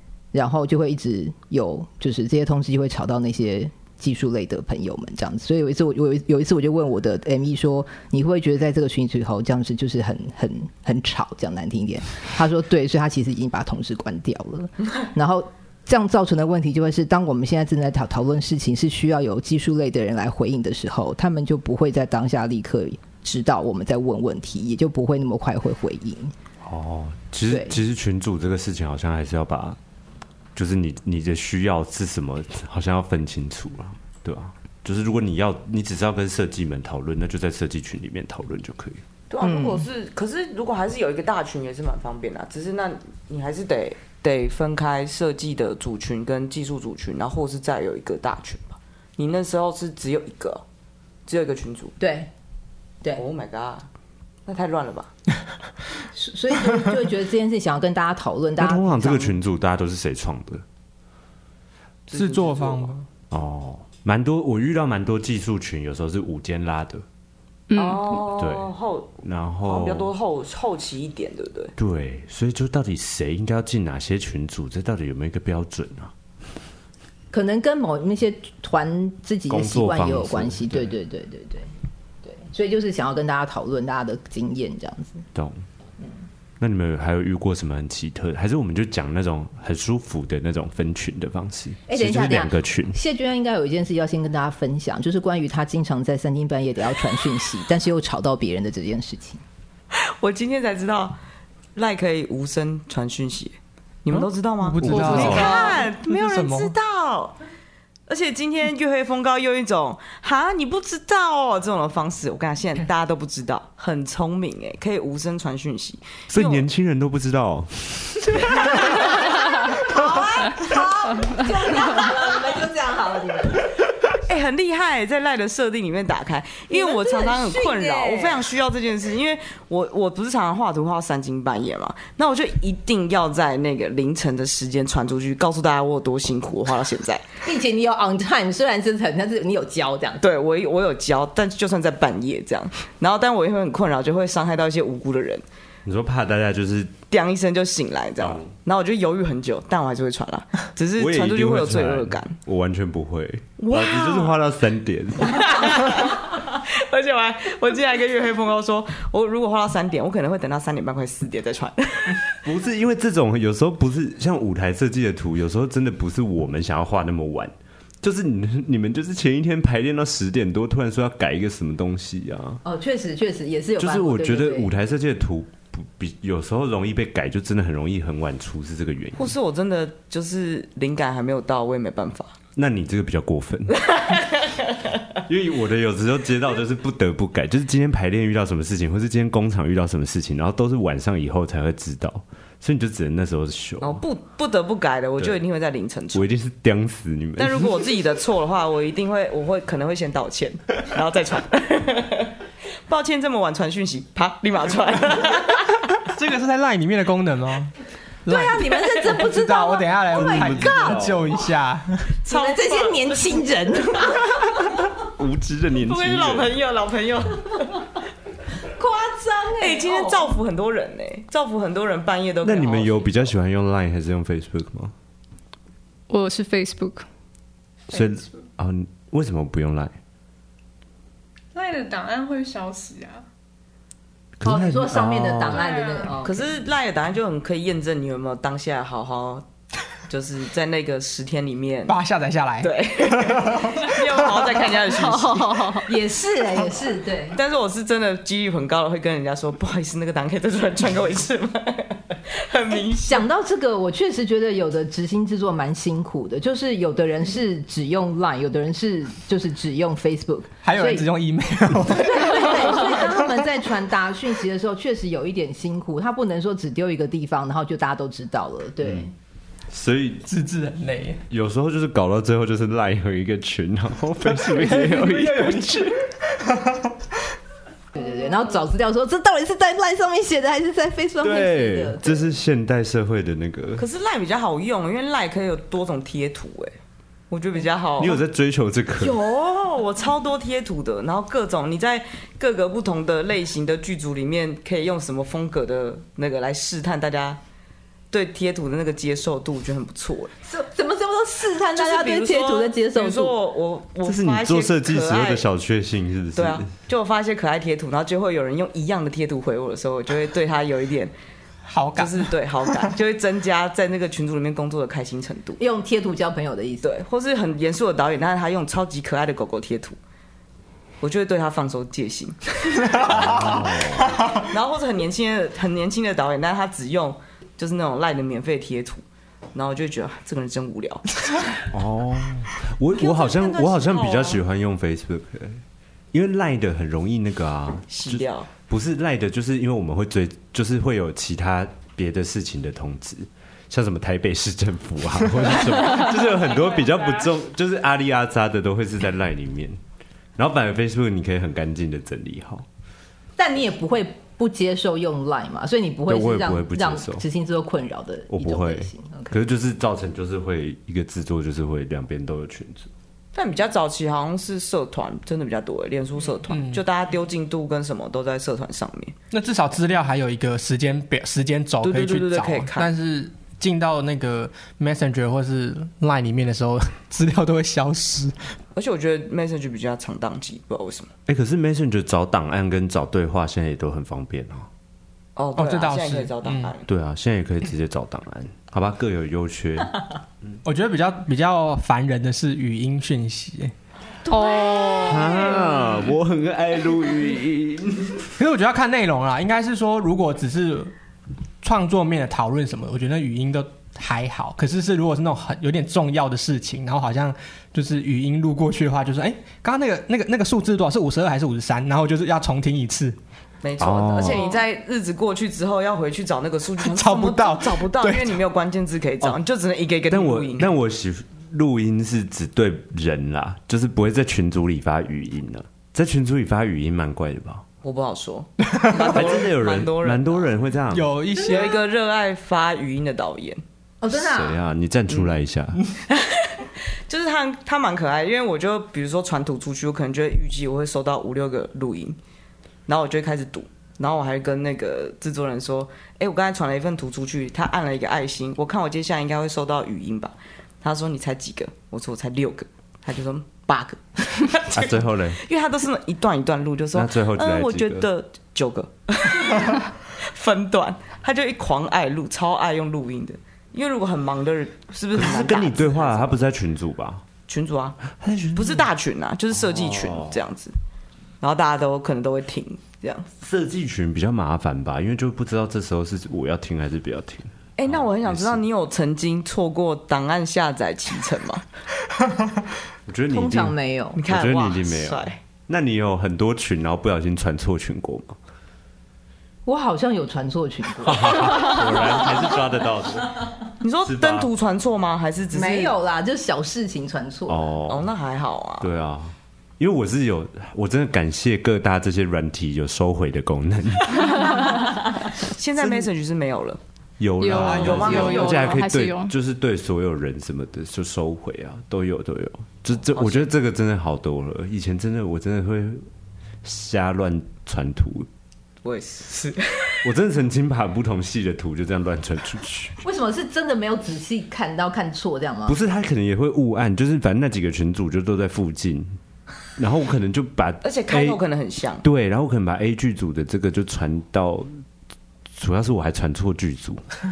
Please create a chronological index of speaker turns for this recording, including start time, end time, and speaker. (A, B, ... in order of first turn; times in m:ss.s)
0:00.3-0:26.3 A
0:26.6-0:29.8 B
0:27.5-0:27.8 A
0:30.6-0:39.0 B
0:39.3-0:50.6 C
0:39.4-0:39.8 A
0:51.3-0:51.9 C
0:52.0-0:52.3 A
0:53.2-0:53.9 C
0:54.5-0:55.1 C
0:56.1-0:59.4 A
0:58.6-1:00.6 B
1:02.1-1:02.9 C
1:02.1-1:03.1 D
1:03.3-1:07.0 B
1:07.7-1:08.2 E
1:07.8-1:11.7 C
1:08.3-1:08.7 B
1:09.2-1:10.1 B
1:11.8-1:16.1 B
1:17.3-1:21.7 A
1:19.5-1:20.9 B
1:22.2-1:25.2 A
1:25.3-1:25.6 B
1:26.6-1:33.0 B
1:31.9-1:39.4 A
1:40.2-1:41.2 C
1:41.8-1:47.4 C
1:44.1-1:46.7 D
1:44.9-1:45.8 E
1:45.1-1:45.6 B
1:48.1-1:56.7 C
1:56.3-1:58.6 B
1:58.7-2:03.8 A
2:04.3-2:17.2 C
2:06.7-2:08.4 A
2:17.4-2:20.2 A
2:20.2-2:25.4 C
2:25.8-2:27.0 B
2:27.1-2:32.4 C
2:28.2-2:28.5 B
2:31.0-2:35.4 B
2:33.6-2:34.4 C
2:35.2-2:42.4 C
2:42.4-2:52.6 B
2:52.6-2:54.7 A
2:53.8-2:59.3 B
2:59.2-3:02.4 C
3:02.6-3:03.8 B
3:04.0-3:04.4 C
3:05.3-3:14.0 B
3:13.8-3:16.3 C
3:16.1-3:17.7 B
3:17.4-3:22.3 C
3:22.9-3:25.9 C
3:26.1-3:27.7 D
3:28.2-3:32.1 D
3:28.3-3:31.1 A
3:30.1-3:31.2 B
3:32.2-3:33.4 C
3:32.3-3:34.4 A
3:35.0-3:36.5 B
3:35.7-3:37.9 C
3:38.8-3:40.4 A
3:39.6-3:43.4 C
3:42.4-3:44.9 B
3:46.1-3:47.1 E
3:47.9-3:50.0 B
3:51.5-3:53.2 F
3:54.4-3:55.7 B
3:54.4-3:56.5 A
3:55.5-3:56.2 F
3:56.2-3:59.4 C
4:00.1-4:02.0 C
4:01.9-4:03.8 D
4:02.6-4:05.7 C
4:05.1-4:05.8 E
4:05.8-4:07.4 A
4:07.3-4:13.2 C
4:13.0-4:21.1 A
4:20.6-4:23.4 D
4:21.8-4:29.1 A
4:29.7-4:30.2 B
4:30.2-4:31.2 D
4:31.3-4:36.0 B
4:34.4-4:35.7 D
4:38.0-4:42.4 A
4:41.2-4:43.8 B
4:43.8-4:46.7 C
4:47.3-4:48.2 C
4:48.0-4:49.2 B
4:49.0-4:57.4 C
4:58.1-5:00.3 C
5:00.5-5:03.3 A
5:01.8-5:05.5 C
5:04.0-5:06.7 B
5:06.3-5:11.1 C
5:11.7-5:12.3 D
5:11.9-5:15.6 C
5:15.6-5:16.9 A
5:16.8-5:20.0 C
5:21.0-5:23.6 C
5:23.0-5:24.2 B
5:24.2-5:31.5 C
5:31.7-5:49.8 B
5:33.0-5:34.4 C
5:37.9-5:38.5 C
5:50.4-5:52.6 B
5:53.4-5:59.4 A
5:56.1-5:57.2 B
5:58.3-6:02.9 B
6:03.3-6:09.1 C
6:06.5-6:06.8 D
6:09.3-6:18.5 D
6:11.8-6:12.9 C
6:18.8-6:21.1 C
6:21.3-6:24.7 B
6:25.4-6:26.9 C
6:25.6-6:26.7 D
6:26.9-6:30.0 B
6:30.6-6:33.7 D
6:34.2-6:36.1 C
6:34.4-6:35.2 E
6:35.0-6:38.3 B
6:38.4-6:40.9 D
6:41.6-6:53.2 D
6:53.6-7:00.7 C
6:53.8-6:54.6 B
6:56.8-6:58.4 D
7:00.1-7:07.6 B
7:07.8-7:10.6 C
7:09.1-7:11.1 B
7:10.9-7:11.7 D
7:11.4-7:13.6 C
7:14.0-7:14.6 A
7:14.1-7:15.8 B
7:15.1-7:15.4 C
7:16.1-7:16.5 C
7:17.1-7:22.2 C
7:22.9-7:46.4 C
7:34.7-7:35.4 B
7:36.9-7:38.1 B
7:45.1-7:47.2 B
7:47.5-7:50.7 C
7:48.2-7:48.9 B
7:49.5-7:50.4 B
7:51.4-7:53.3 C
7:53.4-7:58.6 B
7:57.8-8:01.6 C
8:03.1-8:03.8 B
8:03.3-8:04.2 A
8:04.2-8:05.4 C
8:04.3-8:08.4 B
8:09.6-8:12.1 A
8:11.0-8:13.5 B
8:13.8-8:15.9 C
8:14.0-8:14.5 B
8:15.5-8:17.6 A
8:17.5-8:18.1 B
8:17.9-8:18.9 C
8:18.8-8:24.3 B
8:24.3-8:24.8 E
8:24.4-8:26.8 C
8:27.2-8:36.0 B
8:27.4-8:29.3 E
8:27.5-8:28.7 C
8:33.1-8:33.5 C
8:36.6-8:38.3 B
8:38.8-8:40.0 C
8:40.0-8:43.0 B
8:43.0-8:45.8 A
8:45.7-8:49.2 B
8:49.8-8:51.4 B
8:50.8-8:52.1 C
8:52.0-8:54.7 B
8:55.6-8:57.0 B